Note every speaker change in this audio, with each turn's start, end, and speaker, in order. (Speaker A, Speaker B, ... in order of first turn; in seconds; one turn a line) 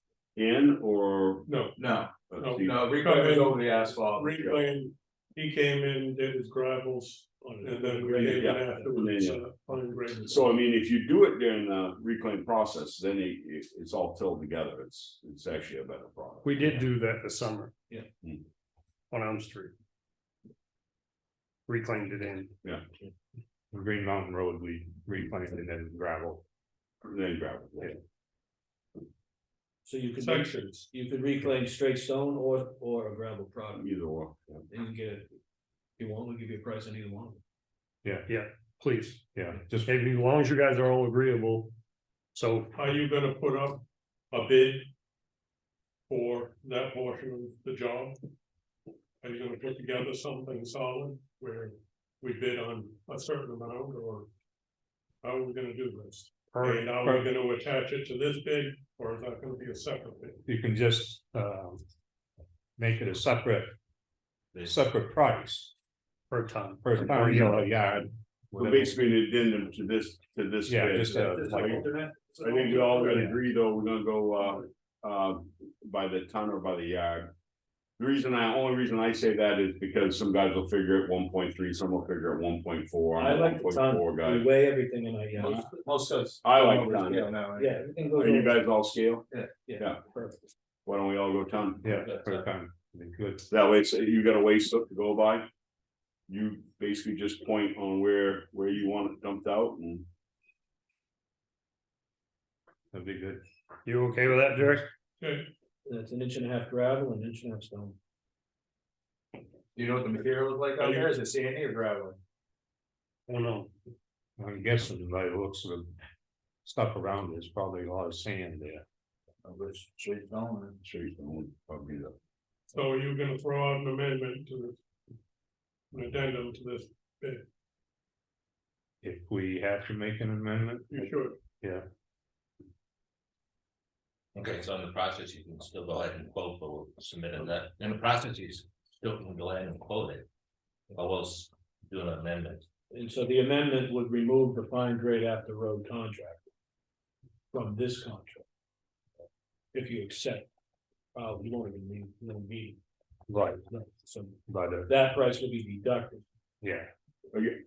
Speaker A: 0.4-1.5
Speaker B: 1.5-1.8
Speaker C: 1.8-4.6
Speaker A: 2.3-2.8
Speaker B: 2.3-10.5
Speaker D: 7.6-8.9
Speaker A: 8.3-9.4
Speaker A: 10.3-16.9
Speaker E: 16.4-17.7
Speaker E: 19.1-19.7
Speaker E: 21.7-22.5
Speaker F: 23.7-26.4
Speaker A: 27.0-28.0
Speaker D: 29.9-33.9
Speaker B: 30.2-30.9
Speaker A: 33.8-34.6
Speaker D: 34.7-35.3
Speaker D: 36.0-37.4
Speaker E: 38.3-39.4
Speaker F: 39.3-39.9
Speaker E: 39.9-41.7
Speaker E: 42.3-42.8
Speaker B: 42.7-44.9
Speaker B: 46.1-48.2
Speaker B: 49.2-54.3
Speaker B: 55.2-60.4
Speaker E: 56.5-56.9
Speaker F: 60.5-61.8
Speaker F: 62.8-63.7
Speaker F: 64.6-65.7
Speaker E: 66.3-67.7
Speaker F: 66.8-69.0
Speaker A: 68.6-71.8
Speaker F: 70.7-71.9
Speaker C: 71.1-73.3
Speaker A: 72.4-77.3
Speaker A: 78.0-84.5
Speaker D: 83.2-85.7
Speaker C: 85.3-88.3
Speaker A: 86.4-87.3
Speaker D: 87.5-88.6
Speaker A: 88.2-89.3
Speaker D: 89.6-90.5
Speaker A: 90.9-91.8
Speaker F: 91.8-93.5
Speaker G: 91.9-92.5
Speaker A: 93.5-95.5
Speaker A: 96.3-100.0
Speaker F: 102.9-103.4
Speaker E: 103.8-104.8
Speaker B: 105.2-105.5
Speaker D: 105.9-108.0
Speaker C: 109.8-112.2
Speaker B: 110.8-111.2
Speaker E: 113.3-113.7
Speaker F: 114.4-115.9
Speaker F: 116.6-118.8
Speaker C: 119.4-120.8
Speaker A: 120.8-122.2
Speaker B: 122.7-124.8
Speaker B: 125.9-127.4
Speaker F: 129.0-131.0
Speaker B: 130.9-131.4
Speaker F: 131.6-131.8
Speaker G: 134.3-140.2
Speaker G: 140.9-142.6
Speaker D: 142.9-146.4
Speaker D: 147.5-148.4
Speaker D: 149.7-150.5
Speaker D: 151.2-152.8
Speaker F: 153.3-153.7
Speaker D: 153.7-156.2
Speaker F: 154.5-154.9
Speaker F: 156.6-156.9
Speaker A: 157.3-157.6